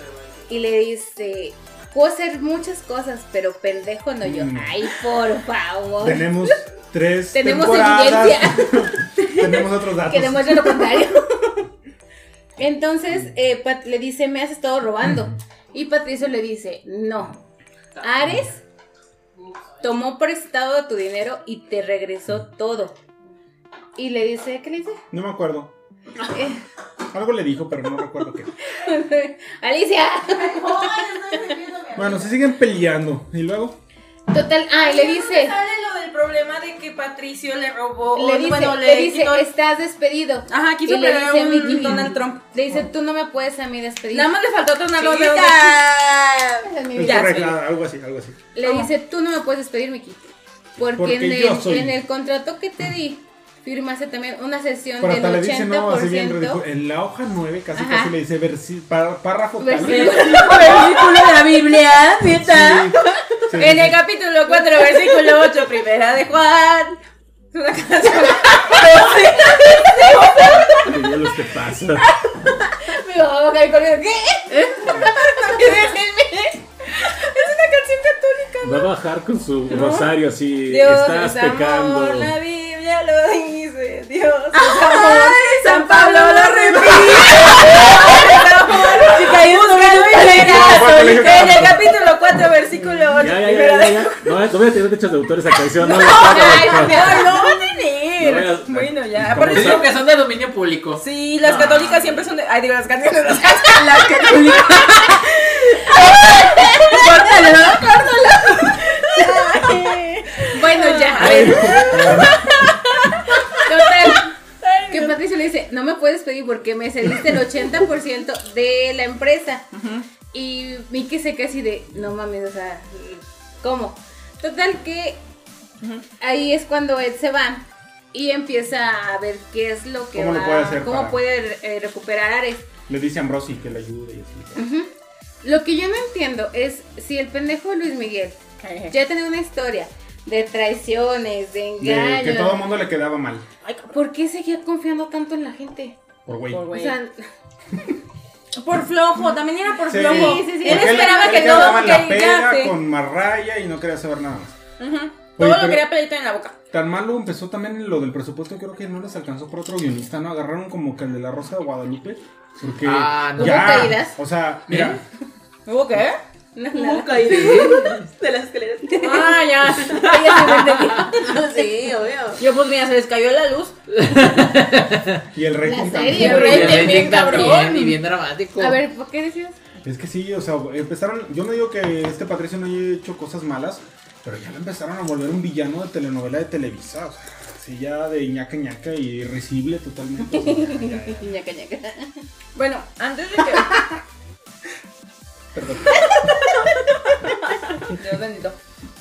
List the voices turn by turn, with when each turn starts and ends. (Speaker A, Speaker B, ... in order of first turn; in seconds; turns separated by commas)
Speaker A: 0.5-6.5, Speaker B: 4.2-4.8, Speaker B: 6.0-11.0, Speaker A: 7.3-11.7, Speaker A: 12.6-17.4, Speaker A: 18.0-18.6, Speaker A: 19.8-22.9, Speaker A: 23.9-25.0, Speaker B: 25.1-25.7, Speaker A: 26.3-26.6, Speaker B: 27.1-28.5, Speaker A: 28.7-31.1, Speaker C: 31.3-32.1, Speaker B: 31.9-33.8, Speaker A: 34.3-35.6, Speaker D: 34.8-39.5, Speaker A: 38.1-44.3, Speaker D: 40.5-42.4, Speaker D: 44.1-45.9, Speaker C: 45.0-46.7, Speaker A: 46.6-47.5, Speaker B: 46.9-48.4, Speaker D: 47.0-47.6, Speaker A: 48.5-50.2, Speaker D: 48.6-48.9, Speaker A: 50.8-56.6, Speaker B: 50.9-52.0, Speaker B: 55.0-60.2, Speaker A: 57.7-58.1, Speaker A: 59.6-60.9, Speaker D: 59.9-61.6, Speaker C: 60.0-63.2, Speaker B: 62.4-64.0, Speaker D: 63.6-67.0, Speaker D: 67.5-70.9, Speaker C: 68.7-70.8, Speaker E: 70.9-72.1, Speaker A: 72.9-75.1, Speaker D: 74.6-76.3, Speaker D: 77.0-78.5, Speaker E: 78.6-82.4, Speaker D: 79.7-80.1, Speaker D: 80.7-94.2, Speaker C: 84.5-91.2, Speaker B: 90.3-91.8, Speaker E: 93.2-97.3, Speaker D: 96.0-99.9, Speaker A: 96.2-97.5, Speaker E: 98.2-99.9, Speaker F: 99.5-101.0, Speaker D: 101.0-105.1, Speaker E: 101.4-102.1, Speaker C: 103.7-105.1, Speaker C: 106.8-110.5, Speaker D: 107.0-107.5, Speaker A: 110.5-112.2, Speaker D: 110.7-111.8, Speaker B: 111.2-112.5, Speaker C: 111.6-112.1, Speaker A: 113.6-114.3, Speaker D: 114.6-115.1, Speaker A: 114.9-119.7, Speaker D: 119.7-120.1, Speaker A: 120.3-125.2, Speaker A: 126.2-132.7, Speaker B: 130.1-131.2, Speaker B: 132.9-134.6, Speaker A: 134.6-134.9, Speaker A: 135.4-138.4, Speaker D: 138.6-138.9, Speaker A: 138.9-142.7, Speaker B: 141.8-143.4, Speaker D: 143.6-143.9, Speaker A: 143.9-146.0, Speaker B: 146.2-146.7, Speaker D: 146.5-146.9, Speaker A: 146.7-147.2, Speaker D: 148.6-152.7, Speaker B: 149.9-154.6, Speaker A: 150.0-151.9, Speaker D: 154.8-156.6, Speaker B: 155.4-155.9, Speaker B: 156.7-165.0, Speaker F: 162.8-163.9, Speaker A: 163.4-164.2, Speaker F: 164.7-165.0, Speaker D: 165.7-166.2, Speaker A: 166.6-167.7, Speaker C: 166.7-172.4, Speaker F: 167.3-168.0, Speaker A: 169.0-169.3, Speaker D: 169.0-171.2, Speaker A: 169.9-171.2, Speaker D: 172.4-173.8, Speaker F: 173.9-175.2, Speaker B: 175.3-176.9, Speaker A: 175.6-178.0, Speaker F: 176.1-178.8, Speaker D: 176.2-177.9, Speaker A: 178.6-179.6, Speaker B: 179.8-191.3, Speaker A: 190.4-192.1, Speaker D: 192.5-193.8, Speaker B: 195.5-196.1, Speaker D: 197.9-198.6